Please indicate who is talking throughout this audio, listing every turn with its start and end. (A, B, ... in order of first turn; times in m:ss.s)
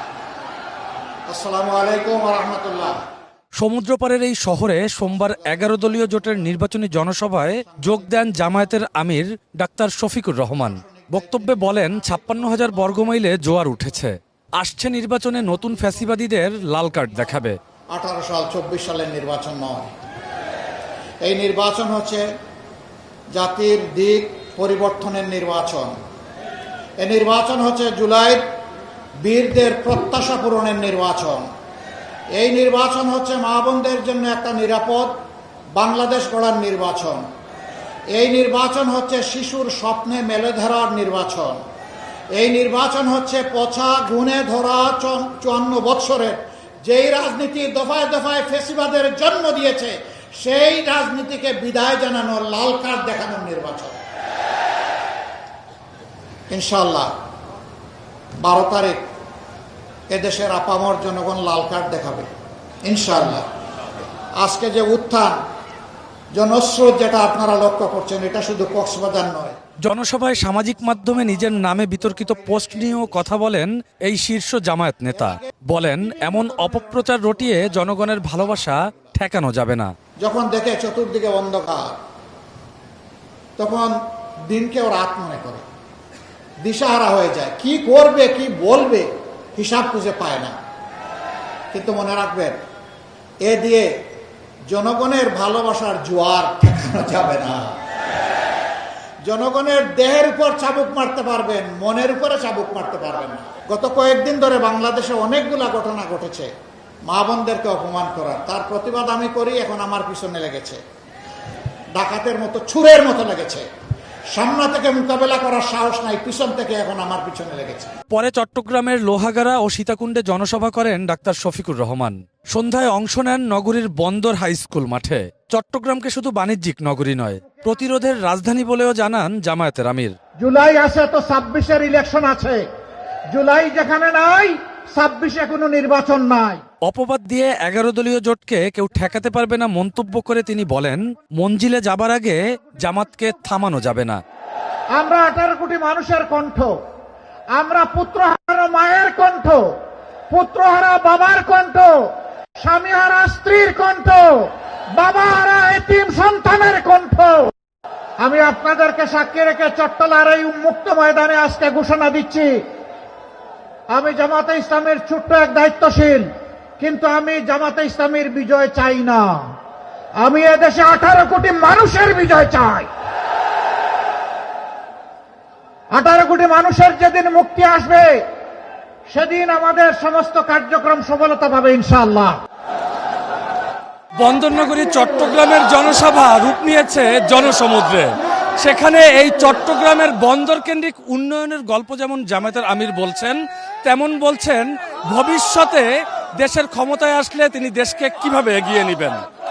0:01.3-0:03.0 A
0:03.6-0:17.6 B
0:07.7-0:08.5 A
0:10.7-0:13.5 A
0:17.9-0:19.9 A
0:21.2-0:22.3 A
0:23.3-0:26.0 A
0:27.0-0:28.4 A
0:29.2-0:31.5 A
0:32.3-0:35.2 A
0:35.7-0:37.3 A
0:38.1-0:41.6 A
0:42.3-0:54.0 A
0:56.5-0:57.1 A
0:58.4-0:59.1 A
1:00.1-1:02.3 A
1:02.8-1:03.4 A
1:04.4-1:05.4 A
1:06.3-1:09.6 A
1:09.8-1:19.9 B
1:15.2-1:15.5 A
1:16.2-1:19.1 A
1:20.2-1:22.0 A
1:23.6-1:25.6 A
1:26.6-1:30.6 A
1:31.7-1:32.6 A
1:33.4-1:34.1 A
1:34.7-1:37.7 A
1:39.2-1:46.5 A
1:47.0-1:50.8 A
1:51.9-1:53.7 A
1:54.3-1:57.9 A
1:58.1-2:10.1 B
2:10.4-2:12.6 C
2:13.3-2:16.6 C
2:16.8-2:24.2 B
2:25.0-2:26.7 C
2:27.6-2:29.8 C
2:30.3-2:37.5 C
2:38.2-2:42.6 C
2:43.9-2:46.3 C
2:46.8-2:49.5 C
2:50.2-2:52.9 C
2:56.0-2:58.1 C
2:59.1-3:02.4 C
3:04.2-3:15.9 B
3:16.4-3:19.2 B